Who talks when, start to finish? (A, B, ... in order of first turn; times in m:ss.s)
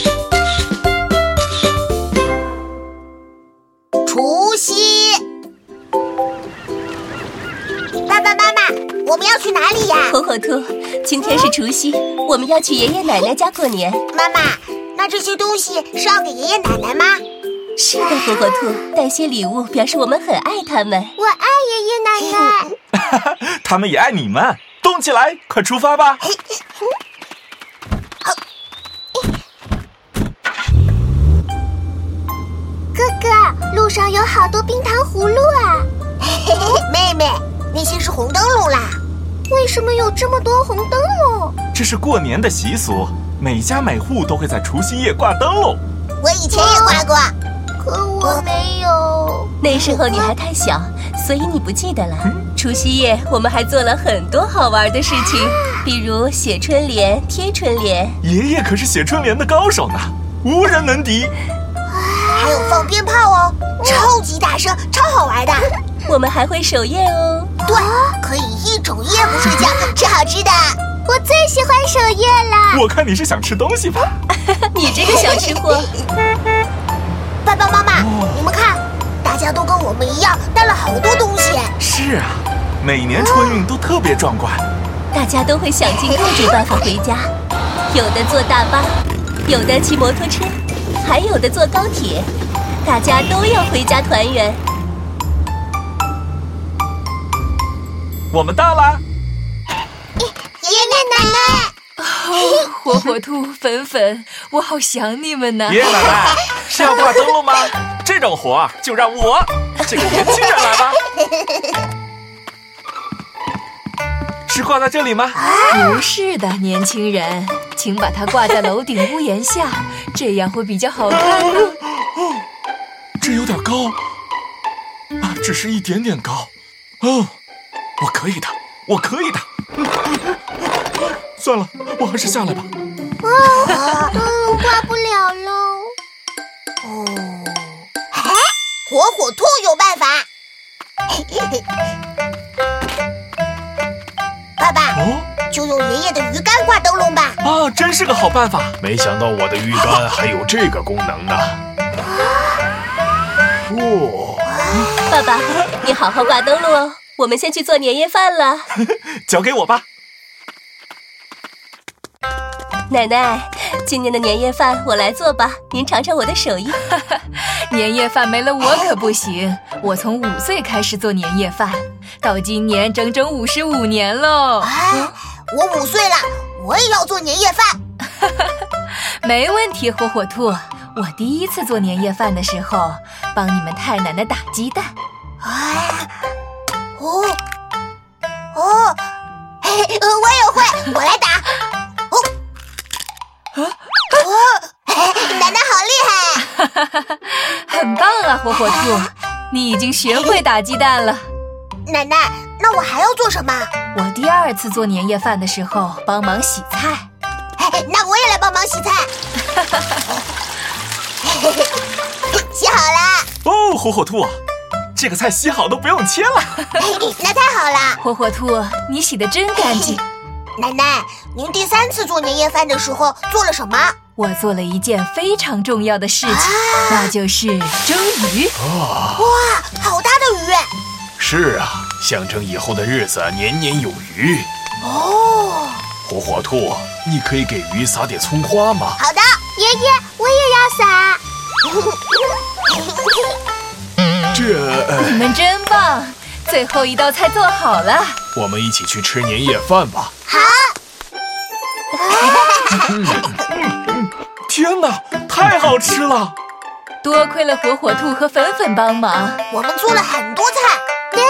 0:04.0-0:05.2 A
0:08.1-0:10.2 A
0:10.0-0:14.0 B
0:14.1-0:17.2 A
0:17.8-0:21.1 B
0:21.2-0:22.7 A
0:22.9-0:26.2 C
0:26.2-0:26.6 A
0:32.9-0:34.3 A
0:33.0-0:35.9 D
0:36.2-0:39.0 A
0:39.5-0:41.5 D
0:41.7-0:45.8 C
0:46.2-0:47.3 A
0:46.5-0:47.0 D
0:47.8-0:50.3 D
0:48.2-0:48.5 A
0:49.6-0:58.2 B
0:58.2-1:01.3 C
1:01.9-1:02.8 D
1:02.3-1:05.7 A
1:06.0-1:07.5 B
1:07.6-1:08.1 D
1:07.6-1:10.8 A
1:11.1-1:12.8 D
1:12.7-1:14.1 C
1:14.7-1:15.9 B
1:17.4-1:21.7 A
1:17.9-1:18.4 C
1:21.8-1:24.6 C
1:23.1-1:23.6 A
1:25.1-1:27.3 B
1:27.9-1:32.3 B
1:32.8-1:34.6 B
1:38.3-1:39.0 C
1:40.6-1:41.7 A
1:42.0-1:46.1 E
1:45.7-1:51.0 C
1:54.5-1:55.4 C
1:55.4-1:55.9 A
1:55.7-2:01.8 E
2:03.2-2:04.0 C
2:05.2-2:06.5 C
2:07.0-2:07.3 C
2:08.0-2:09.5 C
2:11.4-2:12.7 C
2:13.2-2:15.9 A
2:15.5-2:15.9 D
2:16.8-2:20.3 A
2:21.1-2:21.6 A
2:24.6-2:27.4 A
2:24.9-2:25.3 C
2:27.4-2:28.8 C
2:28.8-2:31.6 F
2:32.1-2:32.5 A
2:33.7-2:34.5 F
2:34.4-2:34.9 A
2:35.1-2:38.6 B
2:38.8-2:39.8 C
2:42.9-2:46.8 B
2:46.9-2:54.7 E
2:54.6-2:57.8 A
2:58.2-3:04.9 E
3:05.4-3:06.1 A
3:07.0-3:07.4 A
3:08.5-3:09.1 A
3:09.6-3:11.5 A
3:14.2-3:16.4 A
3:16.6-3:21.2 E
3:18.6-3:19.0 A
3:21.8-3:23.7 A
3:23.9-3:27.1 E
3:27.6-3:29.1 A
3:31.2-3:31.7 A
3:32.3-3:33.3 A
3:33.4-3:34.4 C
3:34.9-3:36.6 C
3:36.8-3:38.0 A
3:38.0-3:40.0 E
3:39.6-3:40.0 A
3:40.6-3:44.0 A
3:44.2-3:48.6 E
3:46.2-3:47.1 A
3:48.6-3:49.2 F
3:49.2-3:50.7 A
3:51.2-3:54.5 F
3:54.8-3:55.8 A
3:56.0-3:59.0 F
3:59.0-3:59.6 A
3:59.5-4:01.2 D
4:02.7-4:03.2 A
4:04.3-4:05.3 F
4:05.0-4:08.2 E
4:08.3-4:10.1 F
4:10.3-4:10.7 A
4:12.0-4:12.9 A
4:12.8-4:13.4 F
4:13.6-4:16.3 C
4:17.0-4:19.4 E
4:19.5-4:20.8 A